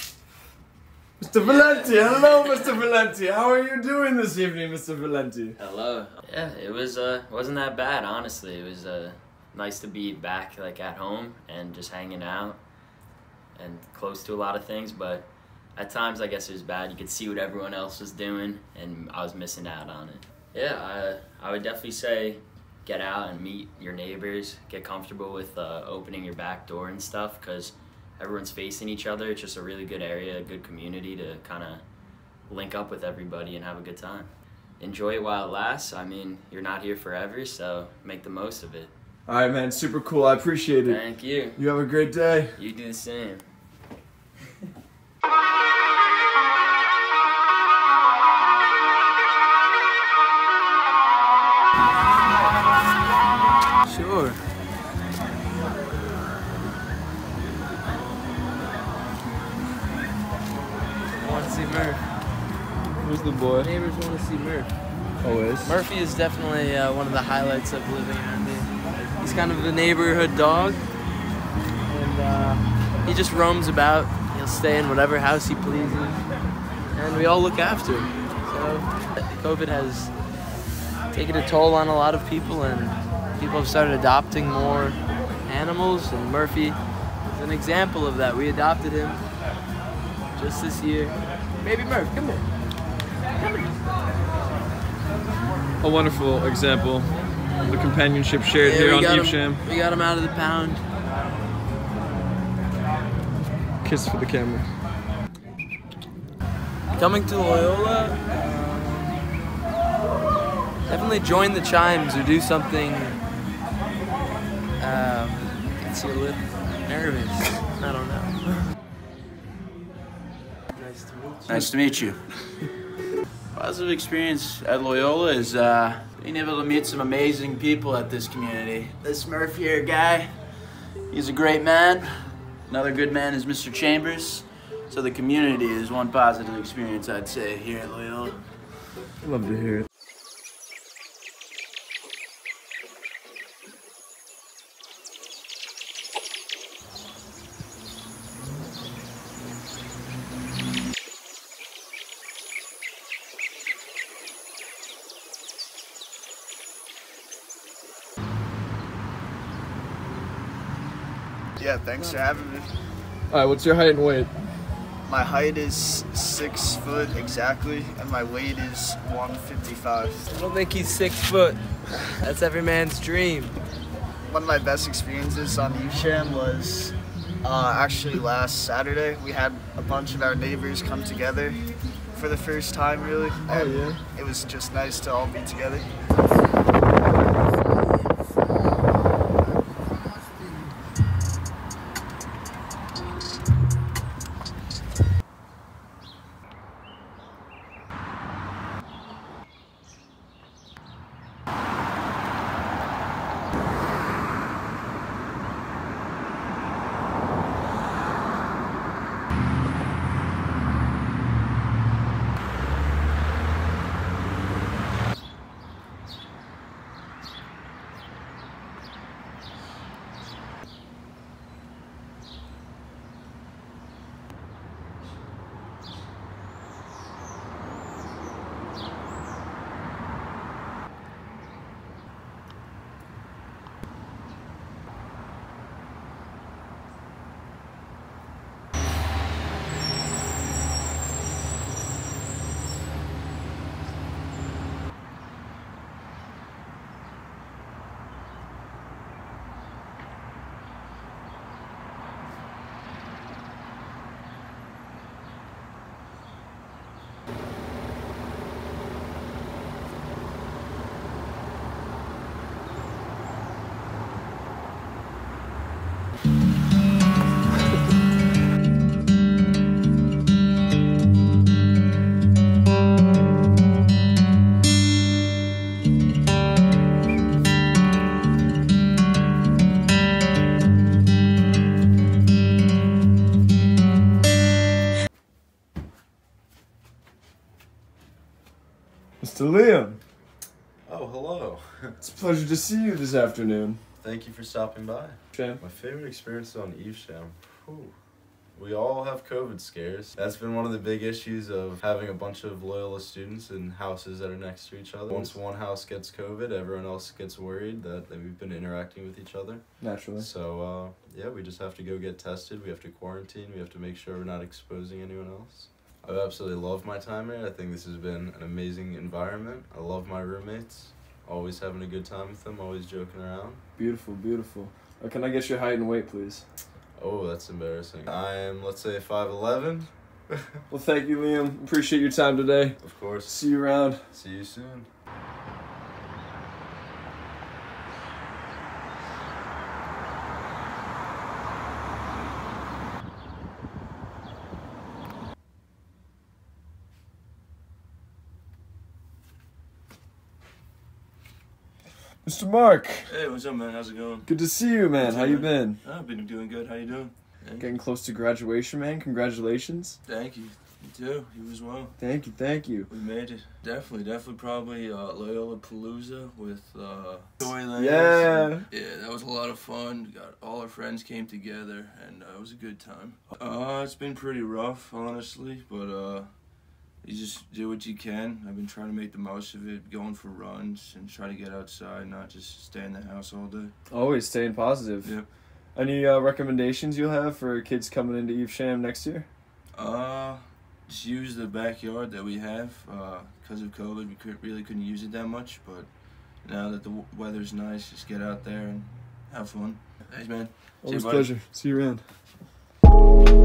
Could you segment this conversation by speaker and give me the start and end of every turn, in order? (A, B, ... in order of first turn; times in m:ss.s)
0:01.2-0:05.5 A
0:01.4-0:02.8 B
0:05.6-0:12.6 B
0:13.5-0:31.8 B
0:32.5-0:38.9 B
0:39.3-0:41.0 A
0:40.8-0:41.6 B
0:41.6-0:42.6 A
0:42.6-0:43.4 B
0:53.8-0:54.4 C
1:01.2-1:02.0 C
1:03.0-1:03.7 A
1:03.5-1:04.7 C
1:05.2-1:05.8 A
1:05.6-1:10.8 C
1:11.9-1:16.3 C
1:16.9-1:20.1 C
1:21.1-1:29.2 C
1:30.3-1:32.4 C
1:33.4-1:33.7 C
1:35.8-1:39.6 A
1:38.6-1:40.8 C
1:43.8-1:44.7 A
1:47.0-1:49.3 C
1:50.8-1:53.2 C
1:54.8-1:58.6 C
2:00.7-2:02.1 C
2:01.5-2:02.6 D
2:03.5-2:18.5 D
2:19.2-2:19.9 A
2:41.6-2:42.8 E
2:42.0-2:42.3 C
2:43.3-2:44.3 A
2:45.1-2:50.3 E
2:50.3-2:53.5 C
2:54.3-3:01.6 E
3:02.1-3:05.9 E
3:03.5-3:04.0 A
4:49.2-4:50.0 A
4:50.8-4:51.9 F
4:52.0-4:53.8 A
4:54.0-4:57.9 F
4:55.3-4:55.6 A
4:58.5-5:23.6 F
5:09.8-5:10.3 A
5:23.8-5:26.4 A
5:27.0-5:30.6 F
5:30.7-5:34.0 A
5:32.8-5:33.4 F
5:34.1-5:34.9 F
5:52.2-5:53.1 A
5:53.0-5:54.3 G
5:54.2-5:55.8 A
5:55.0-5:57.7 G
5:57.6-6:00.0 A
6:00.0-6:02.0 G
6:02.0-6:02.9 A
6:02.9-6:23.7 G
6:07.4-6:08.7 A
6:23.9-6:25.2 A
6:25.7-6:29.3 A
6:29.7-6:41.4 G
6:40.8-6:42.0 A